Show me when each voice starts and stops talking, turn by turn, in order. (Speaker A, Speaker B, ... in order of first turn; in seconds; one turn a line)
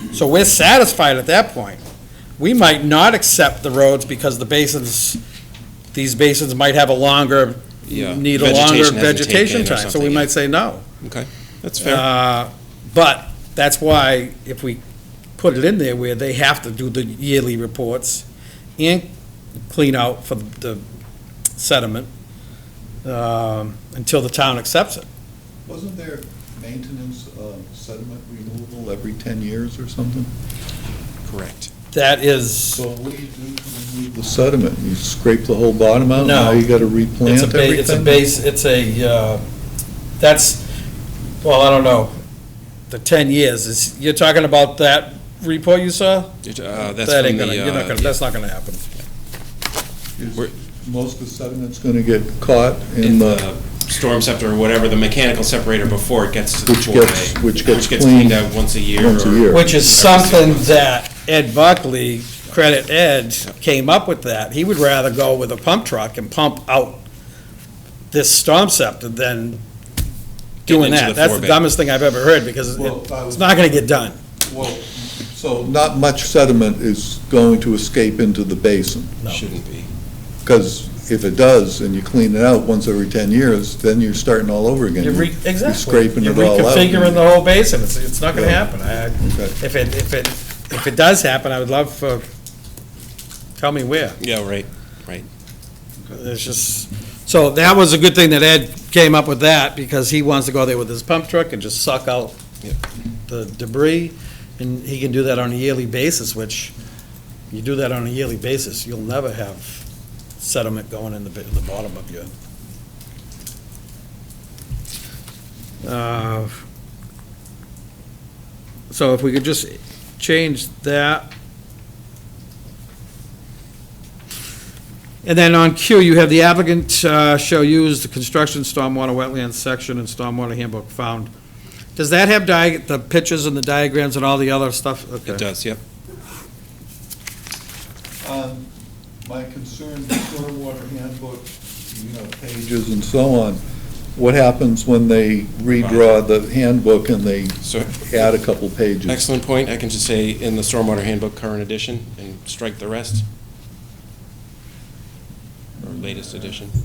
Speaker A: 0.1-1.8
Speaker A: 2.4-5.2
Speaker A: 5.9-10.8
Speaker B: 7.9-10.3
Speaker B: 11.0-12.1
Speaker A: 11.8-14.8
Speaker A: 15.4-18.2
Speaker A: 18.8-19.1
Speaker A: 19.7-20.8
Speaker A: 21.6-22.1
Speaker A: 23.0-25.1
Speaker C: 25.7-30.3
Speaker B: 31.2-31.7
Speaker A: 31.9-32.8
Speaker C: 32.8-38.2
Speaker A: 36.2-36.7
Speaker A: 37.2-39.4
Speaker A: 40.2-40.6
Speaker A: 41.4-42.1
Speaker A: 42.9-48.9
Speaker B: 46.4-48.2
Speaker C: 50.2-53.5
Speaker B: 53.0-60.9
Speaker C: 56.7-59.7
Speaker A: 59.5-67.0
Speaker A: 68.1-69.6
Speaker B: 70.7-71.6
Speaker A: 70.7-74.2
Speaker C: 72.8-73.8
Speaker C: 74.5-79.2
Speaker B: 79.3-79.9
Speaker C: 80.4-87.2
Speaker A: 85.0-92.2
Speaker C: 88.3-88.6
Speaker C: 89.2-89.6
Speaker A: 93.6-94.2
Speaker B: 94.2-95.3
Speaker A: 96.1-102.4
Speaker A: 103.3-106.7
Speaker A: 107.5-109.8
Speaker A: 110.4-112.3
Speaker A: 115.8-116.5
Speaker A: 118.9-121.3
Speaker A: 125.2-131.3
Speaker A: 132.0-135.4
Speaker B: 135.3-135.8
Speaker C: 138.2-138.7
Speaker C: 139.2-143.6
Speaker C: 144.2-149.2
Speaker B: 145.8-146.2
Speaker B: 147.6-148.1
Speaker B: 149.1-153.2
Speaker B: 155.9-156.8